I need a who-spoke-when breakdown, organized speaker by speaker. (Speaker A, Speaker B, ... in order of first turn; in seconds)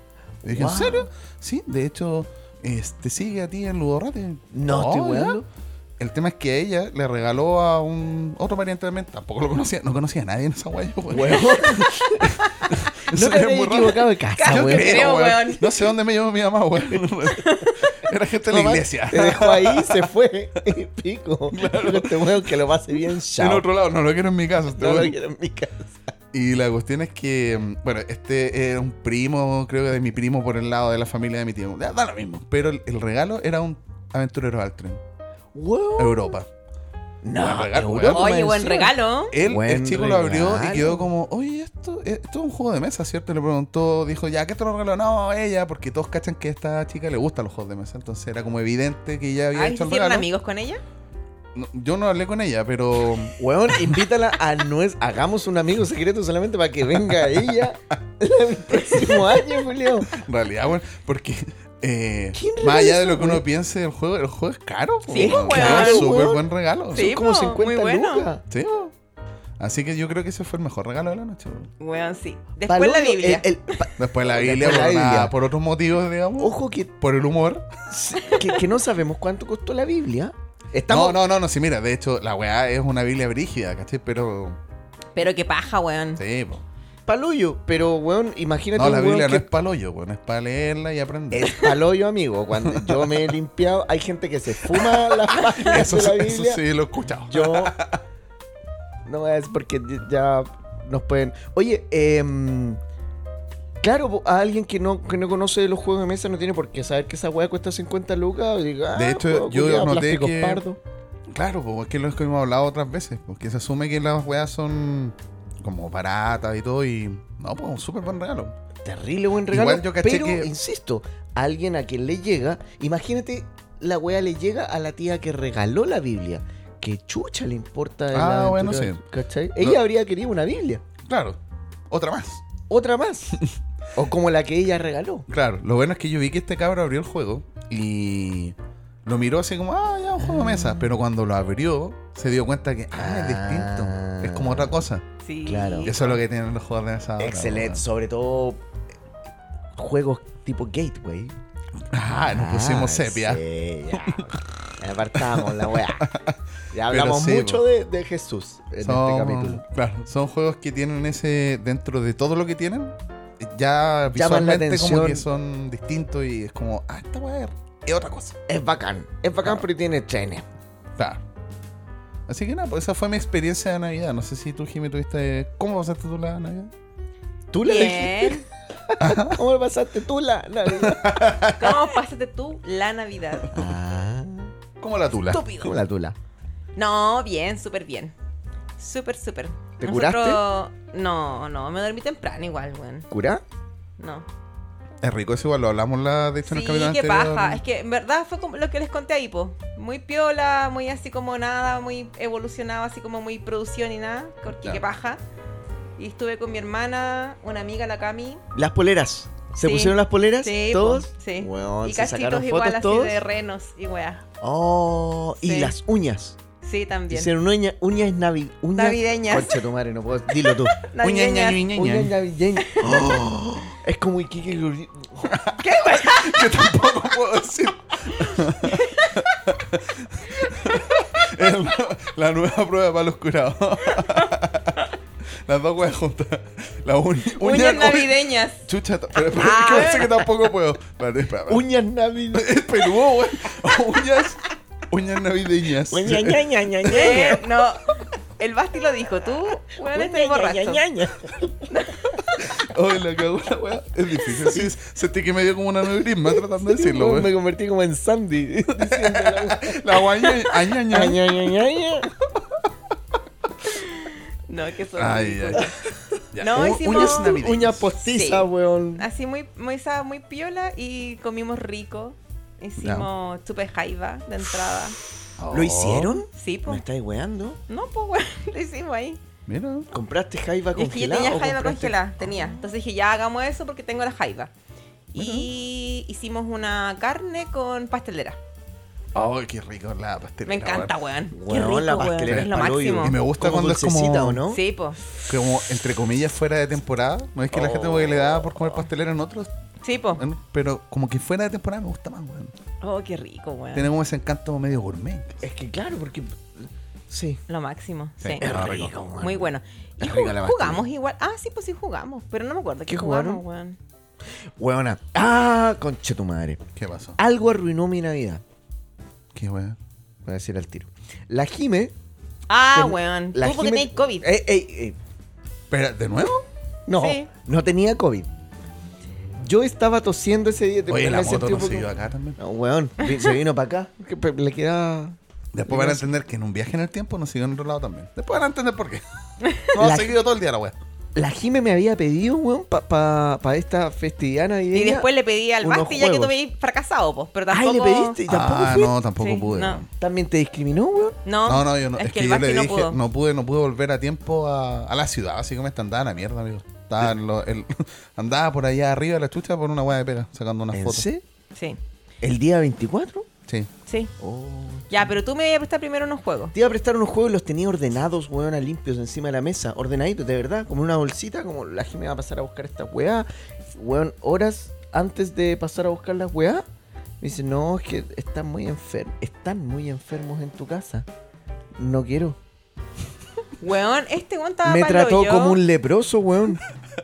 Speaker A: 0.4-1.1, 4.5-5.5, 11.1-12.4, 13.1-15.2, 18.4-23.7, 24.8-25.9, 35.5-36.3, 37.2-41.1, 53.3-60.1, 62.4-63.4, 65.1-68.4, 72.7-75.3, 76.4-76.9, 77.9-81.2, 87.1-89.5, 91.3-96.6, 97.2-97.8, 99.1-102.8, 103.8-110.8, 118.8-130.8, 132.7-133.4, 133.9-135.2, 140.2-140.9, 142.9-144.8, 145.5-145.9, 147.2-148.6, 149.8-151.3, 152.3-156.1, 156.7-159.6, 164.1-165.3, 168.5-170.4, 177.5-181.2, 183.5-184.5, 185.5-186.2, 189.8-190.4, 193.1-193.4, 208.5-213.2, 214.4-216.4, 217.1-220.8, 221.7-225.4, 241.5-242.6, 245.9-247.4, 249.8-251.7, 254.3-254.7, 256.3-260.3, 260.9-262.1, 266.5-269.1, 275.5-277.6, 279.9-282.6, 291.3-294.6, 297.5-298.8, 305.4-307.4, 308.4-310.9, 312.9-313.4, 314.6-316.6, 317.2-318.4, 320.2-321.9, 322.7-325.0, 326.9-328.3, 329.4-336.1, 339.8-340.2, 341.1-345.1, 345.6-346.3, 347.5-348.9, 350.0-351.2, 360.7-361.2, 362.2-363.3, 364.2-365.1, 366.5-376.6, 377.2-381.1, 381.8-382.4, 384.6-386.6
Speaker B: 0.4-5.4, 6.0-20.1, 21.5-22.5, 23.4-25.2, 26.3-35.0, 36.0-36.5, 37.4-38.3, 39.3-50.3, 51.5-54.0, 60.1-67.1, 68.5-68.9, 69.6-71.7, 74.0-77.7, 80.9-84.6, 86.2-86.6, 88.8-91.7, 92.6-93.3, 94.7-98.0, 108.9-110.6, 111.3-118.5, 119.5-120.5, 128.1-129.0, 131.1-131.4, 131.9-132.4, 135.3-138.6, 139.1-145.0, 145.8-147.8, 151.9-153.4, 154.0-154.3, 155.3-156.4, 156.9-157.6, 158.8-168.4, 172.3-176.7, 179.0-179.4, 180.8-181.8, 184.8-185.4, 195.0-197.6, 221.0-222.1, 225.3-234.9, 235.5-241.7, 242.3-246.8, 252.4-257.3, 258.8-261.4, 265.0-267.9, 272.8-273.1, 275.4-276.2, 279.5-279.9, 289.1-290.9, 292.3-294.4, 295.2-299.5, 300.2-302.5, 303.7-305.4, 308.2-308.9, 316.8-317.2, 319.3-319.8, 325.7-326.4, 330.9-332.4, 335.5-339.0, 339.7-340.8, 348.3-349.9, 351.4-361.1
Speaker C: 14.4-15.8, 17.3-17.7, 38.1-39.4, 49.5-50.8, 65.1-66.1, 66.9-68.3, 71.8-73.5, 78.3-78.5, 85.2-86.2, 145.2-146.2, 177.6-178.4, 181.6-183.5, 185.3-185.7, 186.8-188.1, 188.8-193.1, 194.0-194.3, 196.4-205.2, 206.0-208.4, 209.6-214.2, 215.4-215.8, 216.6-217.3, 218.8-219.6, 220.8-221.6, 222.7-223.0, 225.6-226.8, 228.2-229.2, 230.5-231.0, 234.0-234.3, 237.3-238.7, 239.3-240.3, 246.9-250.8, 251.7-252.3, 263.7-265.7, 266.4-267.4, 268.0-275.0, 276.4-276.8, 277.7-279.2, 280.8-284.5, 285.1-288.4, 290.4-293.2, 294.5-295.0, 299.8-300.2, 302.8-303.9, 307.5-308.5, 309.2-313.8, 322.5-324.3, 327.0-327.3, 344.7-348.2, 349.2-349.8, 351.2-353.0, 361.5-361.8, 364.9-366.5, 383.6-385.6